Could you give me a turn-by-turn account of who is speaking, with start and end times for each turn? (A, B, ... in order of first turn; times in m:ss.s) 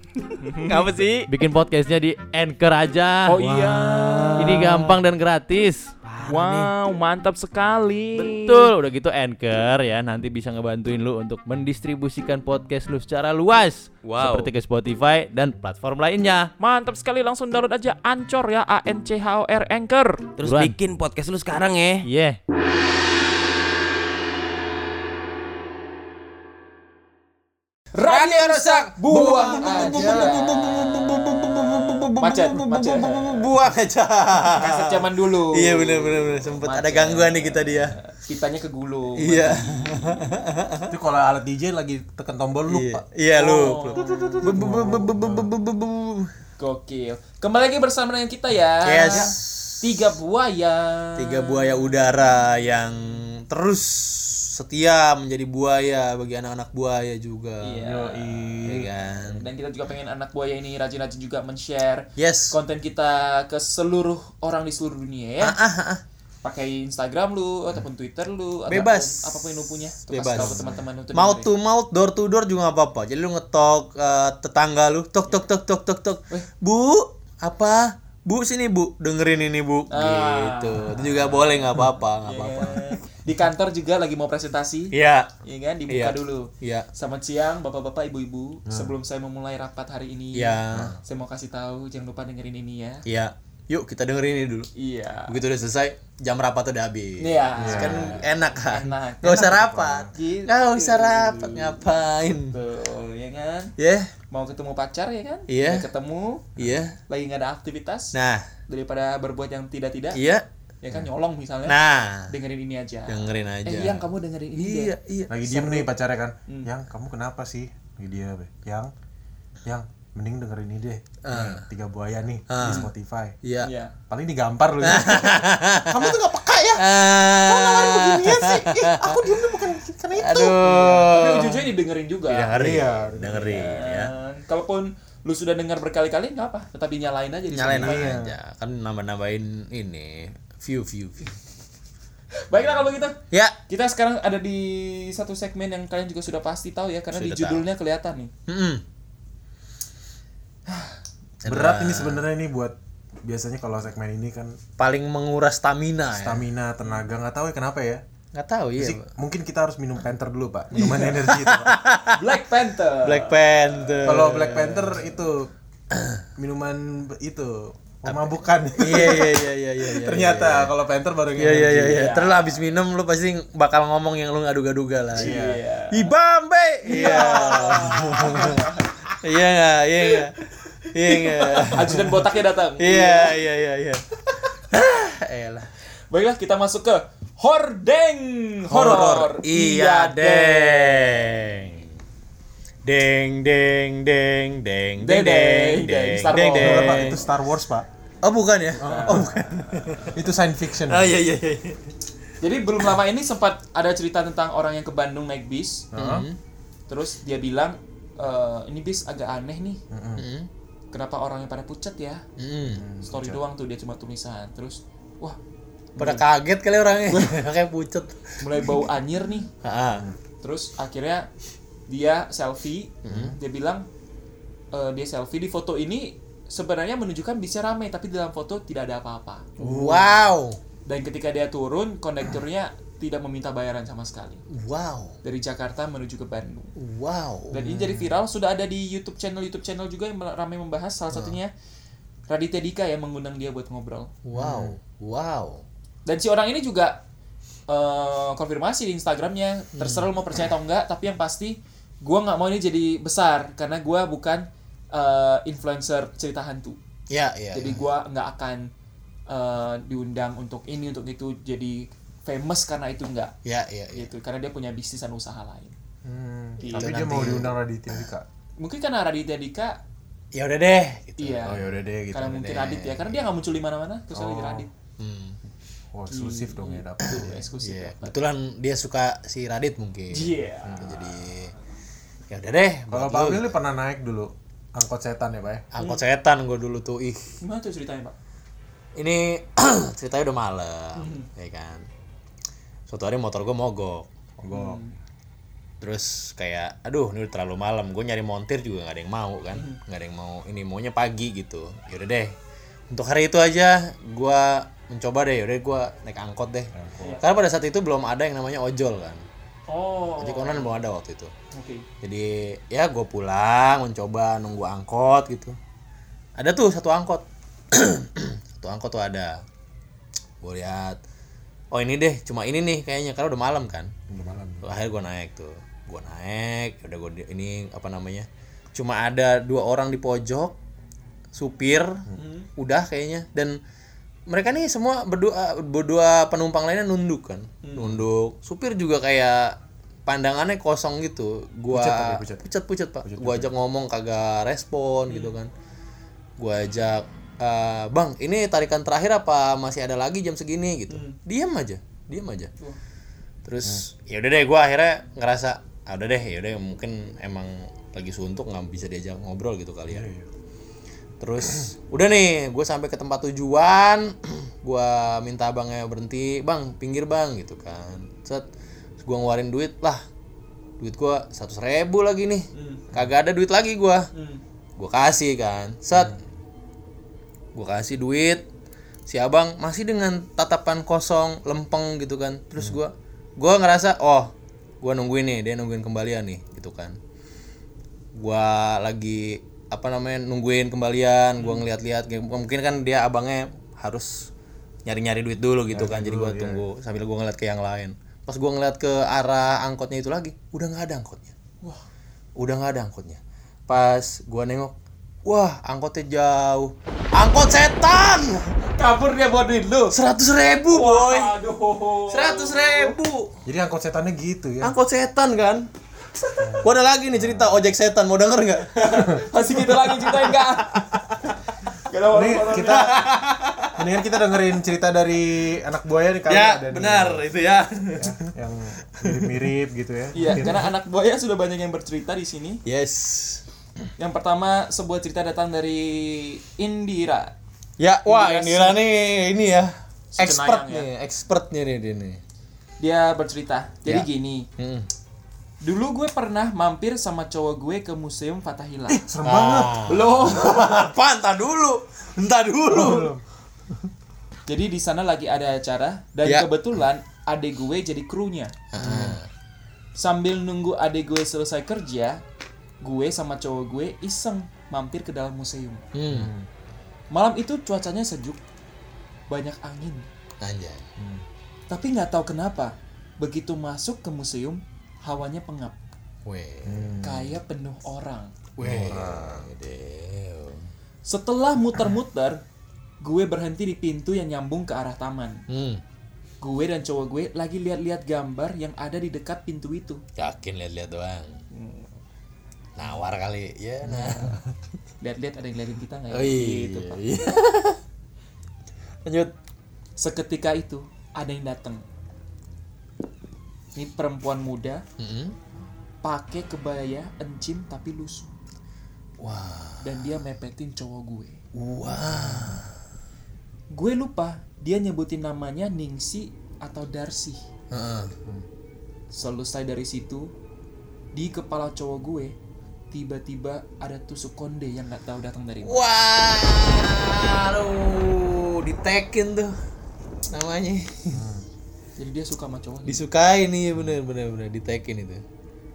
0:00.4-0:01.1 A
0:00.6-0:01.3 B
0:01.3-0:06.7 C
0:03.3-0:04.9 A
0:03.3-0:04.7 D
0:06.2-0:06.7 B
0:06.2-0:08.7 A
0:08.2-0:16.5 C
0:14.1-0:14.5 B
0:16.6-0:20.3 A
0:20.4-0:22.1 B
0:20.4-0:20.8 C
0:22.0-0:22.4 C
0:27.9-0:33.5 D
0:28.0-0:38.0 E
0:29.1-0:30.4 F
0:34.5-0:40.2 D
0:39.2-0:40.9 E
0:40.9-0:43.0 F
0:42.7-0:46.3 E
0:43.4-0:45.0 D
0:44.4-0:45.5 F
0:46.6-0:52.1 D
0:48.8-0:49.8 E
0:51.2-0:57.8 E
0:57.6-0:58.5 D
0:57.8-0:58.9 F
0:58.6-0:59.5 E
0:59.3-1:05.6 D
1:02.2-1:02.6 E
1:05.4-1:06.0 E
1:06.4-1:11.5 D
1:08.7-1:09.5 E
1:10.1-1:22.8 E
1:10.3-1:10.8 F
1:19.9-1:21.7 D
1:22.2-1:24.9 D
1:24.9-1:25.3 E
1:25.4-1:33.0 D
1:25.9-1:26.9 E
1:28.7-1:28.9 F
1:30.4-1:31.0 E
1:30.7-1:31.0 F
1:33.1-1:34.7 E
1:34.8-1:35.4 D
1:35.3-1:42.6 E
1:37.2-1:39.6 D
1:37.6-1:38.2 F
1:39.2-1:40.1 F
1:40.1-1:41.8 D
1:42.5-1:43.7 D
1:43.8-1:44.1 E
1:44.3-1:46.5 D
1:45.5-1:45.9 E
1:46.6-1:46.8 F
1:46.6-1:47.0 E
1:47.1-1:48.1 D
1:48.1-1:48.5 E
1:48.7-1:50.2 D
1:50.1-1:50.4 E
1:50.8-1:51.8 D
1:51.7-1:52.3 E
1:52.3-1:55.0 D
1:53.1-1:55.7 E
1:55.3-1:58.9 F
1:55.6-1:55.8 D
1:59.6-2:03.4 F
2:01.2-2:01.6 E
2:02.5-2:02.9 E
2:02.6-2:02.9 D
2:03.4-2:03.7 E
2:03.6-2:03.9 D
2:04.1-2:10.6 F
2:04.8-2:06.2 E
2:06.8-2:09.6 E
2:10.1-2:11.7 E
2:10.6-2:12.6 D
2:12.3-2:14.1 E
2:12.6-2:13.5 F
2:13.3-2:18.1 D
2:17.5-2:21.4 E
2:17.7-2:18.4 F
2:22.4-2:28.3 D
2:23.3-2:23.6 E
2:27.1-2:27.6 E
2:28.5-2:28.8 E
2:30.7-2:31.0 D
2:31.4-2:32.3 E
2:31.5-2:34.6 F
2:34.8-2:36.4 E
2:36.1-2:38.0 F
2:38.3-2:39.1 E
2:38.8-2:41.8 F
2:40.7-2:41.3 D
2:41.1-2:42.4 E
2:42.2-2:44.1 D
2:43.0-2:45.1 E
2:44.1-2:45.5 F
2:46.0-2:46.2 E
2:46.4-2:52.1 F
2:48.8-2:50.7 E
2:51.4-2:55.4 E
2:51.8-2:52.6 D
2:55.1-2:55.6 F
2:55.2-2:56.1 D
2:55.9-3:02.2 E
2:56.8-2:59.0 D
2:57.0-2:58.4 F
3:01.1-3:03.4 D
3:02.8-3:04.0 E
3:04.6-3:05.7 E
3:06.1-3:11.2 D
3:08.7-3:11.9 E
3:12.8-3:17.2 E
3:15.0-3:17.2 D
3:16.3-3:17.9 F
3:18.2-3:20.2 E
3:18.8-3:19.4 F
3:18.8-3:20.2 D
3:20.1-3:21.2 F
3:20.9-3:21.9 E
3:22.4-3:25.9 D
3:25.9-3:26.3 F
3:26.0-3:26.4 E
3:26.9-3:29.8 D
3:29.9-3:30.2 F
3:30.2-3:30.5 E
3:30.9-3:32.2 D
3:32.4-3:32.8 E
3:32.7-3:33.4 F
3:33.0-3:35.4 D
3:36.0-3:36.2 D
3:36.0-3:38.7 E
3:37.1-3:37.4 D
3:38.4-3:39.5 D
3:39.6-3:40.1 E
3:40.4-3:41.3 D
3:41.9-3:43.9 D
3:43.0-3:43.4 E
3:43.1-3:43.4 F
3:44.7-3:49.5 D
3:49.6-3:50.1 F
3:49.6-3:50.6 E
3:50.9-3:54.4 D
3:54.5-3:55.2 E
3:55.2-3:56.7 D
3:56.8-3:57.8 E
3:57.5-4:01.5 D
4:02.3-4:04.1 D
4:04.2-4:05.6 E
4:04.4-4:04.8 F
4:06.1-4:07.0 D
4:07.7-4:16.8 D
4:09.8-4:10.1 E
4:17.1-4:17.8 E
4:17.5-4:18.7 D
4:19.3-4:23.3 D
4:23.4-4:24.1 E
4:23.9-4:25.8 D
4:26.0-4:28.3 F
4:26.6-4:27.3 D
4:26.7-4:28.0 E
4:28.6-4:29.8 D
4:30.3-4:31.7 E
4:31.2-4:31.6 D
4:31.4-4:32.5 F
4:32.1-4:34.7 D
4:32.3-4:33.2 E
4:34.1-4:34.7 F
4:35.0-4:35.4 E
4:35.9-4:37.4 F
4:36.1-4:38.2 D
4:37.6-4:41.5 E
4:40.1-4:40.9 D
4:42.3-4:43.5 E
4:42.9-4:45.7 F
4:45.7-4:47.3 E
4:47.4-4:48.2 D
4:49.0-4:51.9 E
4:51.0-4:51.3 D
4:52.9-4:54.1 E
4:54.4-4:54.8 F
4:54.5-4:55.0 D
4:55.8-5:02.4 E
5:02.9-5:09.2 E
5:06.7-5:07.2 F
5:07.0-5:07.2 D
5:09.7-5:10.7 D
5:10.2-5:11.3 E
5:11.5-5:11.8 D
5:12.0-5:15.6 E
5:16.4-5:19.4 E
5:20.4-5:21.0 E
5:21.7-5:23.9 E
5:24.1-5:24.7 F
5:24.6-5:30.6 E
5:31.3-5:33.6 E
5:32.2-5:32.5 D
5:34.3-5:45.5 E
5:37.6-5:38.0 D
5:41.7-5:42.4 F
5:43.0-5:43.5 F
5:45.1-5:45.4 D
5:46.4-5:52.5 E
5:50.9-5:51.2 D
5:53.4-6:00.1 E
5:59.9-6:00.3 F
6:01.2-6:08.5 E
6:09.0-6:10.0 E
6:10.8-6:14.1 E
6:12.5-6:12.8 D
6:14.1-6:14.4 D
6:14.8-6:16.2 E
6:17.5-6:18.4 E
6:19.1-6:27.0 E
6:28.2-6:34.3 E
6:31.4-6:31.7 D
6:34.8-6:41.3 E
6:35.7-6:36.6 F
6:42.4-6:48.5 E
6:48.8-6:50.0 D
6:49.9-6:51.4 E
6:50.7-6:53.0 D
6:52.1-6:53.4 E
6:53.4-6:54.8 F
6:54.6-6:55.7 E
6:56.4-6:57.6 F
6:56.6-6:59.2 E
6:58.7-7:00.9 D
6:59.8-7:00.8 E
7:01.9-7:03.0 D
7:02.1-7:03.0 F
7:02.6-7:03.8 E
7:03.8-7:07.2 F
7:06.3-7:08.2 E
7:08.0-7:10.7 F
7:09.0-7:09.4 E
7:10.2-7:12.6 D
7:12.7-7:13.4 E
7:14.0-7:17.3 D
7:17.8-7:22.2 E
7:18.1-7:18.8 D
7:20.1-7:20.9 D
7:22.8-7:24.5 D
7:23.9-7:24.9 E
7:25.6-7:29.0 D
7:28.9-7:29.8 F
7:29.2-7:33.1 E
7:29.9-7:30.7 D
7:32.7-7:33.2 F
7:34.5-7:38.6 D
7:38.7-7:39.3 E
7:38.8-7:39.2 F
7:40.0-7:42.2 D
7:42.8-7:45.8 D
7:45.9-7:46.3 E
7:46.1-7:46.5 F
7:47.1-7:48.4 D
7:49.3-7:50.1 D
7:50.4-7:50.8 E
7:51.0-7:51.2 F
7:51.7-7:55.8 D
7:56.2-7:56.9 E
7:56.6-7:57.4 F
7:57.0-7:58.3 D
7:58.6-8:00.6 E
7:58.6-7:59.5 F
8:01.0-8:02.4 D
8:03.0-8:05.4 D
8:05.5-8:05.8 E
8:06.4-8:10.0 D
8:10.2-8:11.4 E
8:11.5-8:11.9 D
8:12.8-8:14.4 E
8:13.9-8:14.4 D
8:15.0-8:17.0 D
8:16.1-8:17.8 E
8:19.0-8:19.3 E
8:20.0-8:21.8 D
8:23.8-8:24.8 D
8:25.0-8:25.4 E
8:26.0-8:28.3 D
8:29.2-8:29.9 E
8:29.8-8:31.4 D
8:31.6-8:32.7 E
8:32.1-8:32.6 F
8:33.7-8:37.4 D
8:37.7-8:38.1 E
8:39.1-8:40.3 D
8:41.1-8:42.4 D
8:42.9-8:45.8 D
8:45.6-8:49.6 E
8:50.3-8:51.2 E
8:51.1-8:51.4 F
8:52.0-8:53.0 D
8:52.8-8:55.2 E